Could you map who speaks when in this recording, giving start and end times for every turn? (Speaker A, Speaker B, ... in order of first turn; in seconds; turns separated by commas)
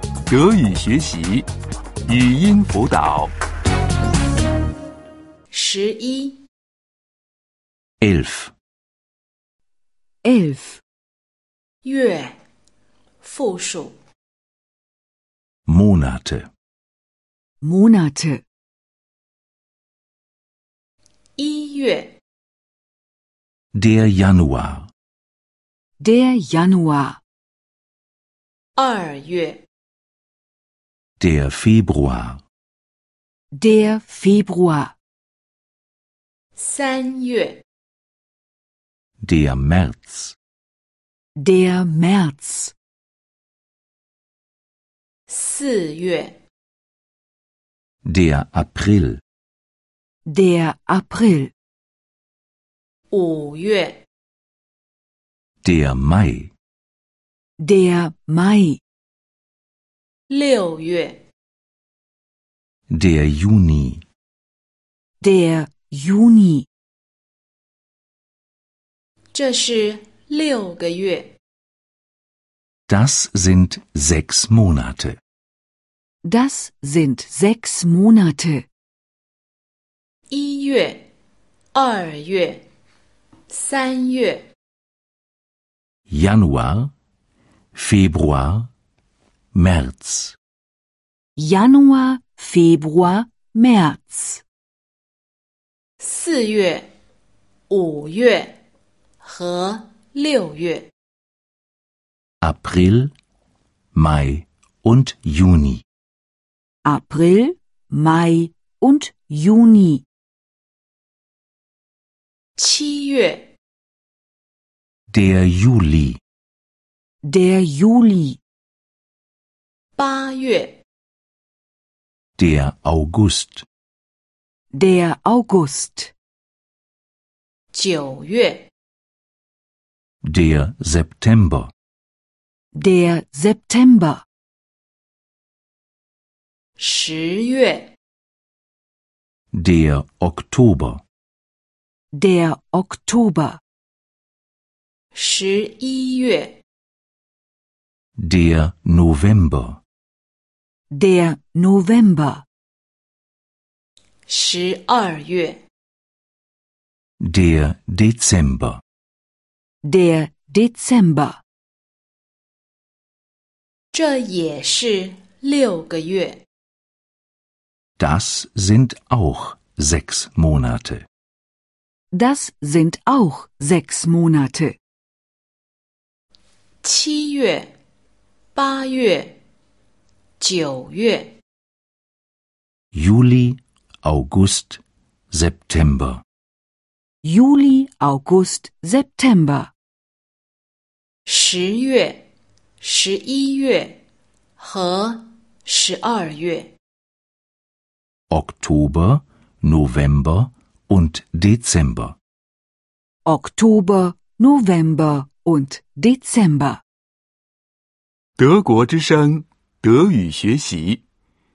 Speaker A: 0.3-1.5, Speaker A: 2.1-3.3, Speaker B: 5.5-6.4, Speaker C: 8.0-8.5, Speaker D: 10.2-10.8, Speaker B: 11.8-12.3, Speaker B: 13.2-13.9, Speaker C: 15.7-16.5, Speaker D: 17.6-18.4, Speaker B: 21.4-22.1, Speaker C: 23.8-24.9, Speaker D: 26.0-27.2, Speaker B: 28.8-29.6, Speaker C: 31.2-32.4, Speaker D: 33.5-34.9, Speaker B: 36.6-37.6, Speaker C: 39.2-40.4, Speaker D: 41.4-42.7, Speaker B: 45.3-46.4, Speaker C: 48.0-49.2, Speaker D: 50.3-51.5, Speaker B: 53.1-54.0, Speaker C: 55.6-56.5, Speaker D: 57.6-58.8, Speaker B: 60.3-61.2, Speaker C: 62.9-64.0, Speaker D: 65.2-66.7, Speaker B: 69.3-71.3, Speaker C: 72.9-75.2, Speaker D: 76.2-78.7, Speaker B: 80.3-81.0, Speaker B: 81.7-82.6, Speaker B: 83.5-84.4, Speaker C: 86.1-86.9, Speaker C: 87.7-88.7, Speaker C: 89.5-90.3, Speaker D: 91.4-94.4, Speaker B: 96.0-96.9, Speaker B: 97.7-98.5, Speaker B: 99.2-100.9, Speaker C: 102.4-103.1, Speaker C: 103.9-105.8, Speaker D: 106.8-110.0, Speaker B: 112.6-113.5, Speaker C: 115.1-116.2, Speaker D: 117.2-118.4, Speaker B: 120.0-120.8, Speaker C: 122.4-123.7, Speaker D: 124.7-126.1, Speaker B: 127.7-128.7, Speaker C: 130.2-131.7, Speaker D: 132.8-134.2, Speaker B: 136.8-137.9, Speaker C: 139.5-141.0, Speaker D: 142.1-143.6, Speaker B: 145.1-146.5, Speaker C: 148.2-149.8, Speaker D: 150.9-152.4, Speaker B: 154.3-155.6, Speaker C: 157.2-158.8, Speaker D: 159.8-161.4, Speaker B: 163.9-166.4, Speaker C: 168.0-171.1, Speaker D: 172.1-174.8, Speaker B: 176.8-177.7, Speaker B: 178.6-179.3, Speaker B: 180.4-181.3, Speaker C: 182.9-184.8, Speaker C: 185.3-186.2, Speaker D: 187.2-189.7, Speaker B: 191.3-192.2, Speaker B: 192.8-193.9, Speaker B: 194.6-196.7, Speaker C: 198.3-202.2, Speaker D: 203.2-206.8, Speaker A: 208.4-211.0